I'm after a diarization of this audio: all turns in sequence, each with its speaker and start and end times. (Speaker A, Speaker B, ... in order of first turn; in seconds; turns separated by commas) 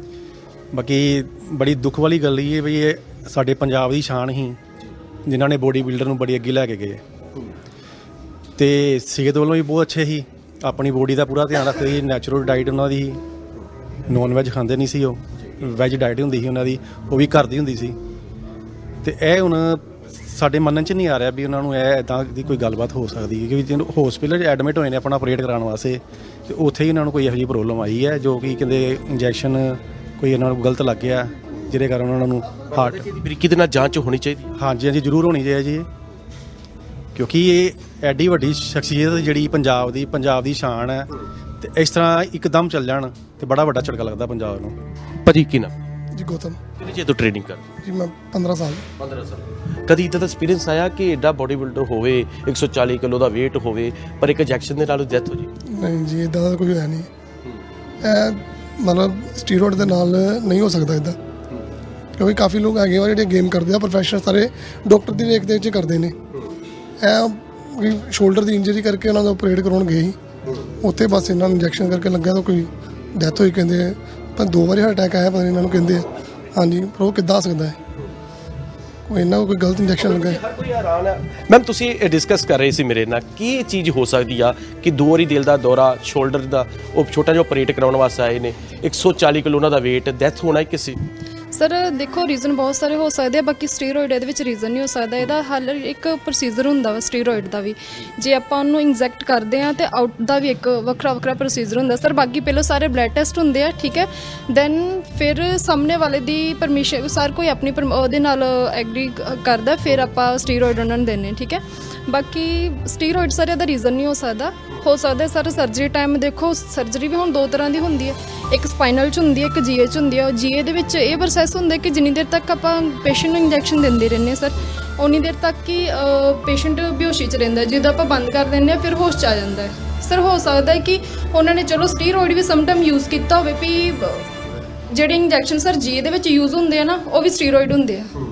Speaker A: 0.7-4.6, Speaker A: 5.3-7.0, Speaker A: 8.6-13.2, Speaker A: 14.1-18.0, Speaker A: 19.0-33.0, Speaker B: 32.7-34.5, Speaker A: 34.6-35.9, Speaker A: 37.1-44.8, Speaker B: 45.2-45.7, Speaker C: 46.1-46.6, Speaker B: 46.8-47.6, Speaker C: 47.8-48.9, Speaker B: 49.0-55.5, Speaker C: 55.7-57.1, Speaker C: 58.0-61.2, Speaker C: 62.2-66.2, Speaker C: 67.0-70.2, Speaker C: 70.8-77.8, Speaker C: 79.1-80.4, Speaker B: 80.0-91.0, Speaker D: 91.5-134.3, Speaker D: 134.9-138.1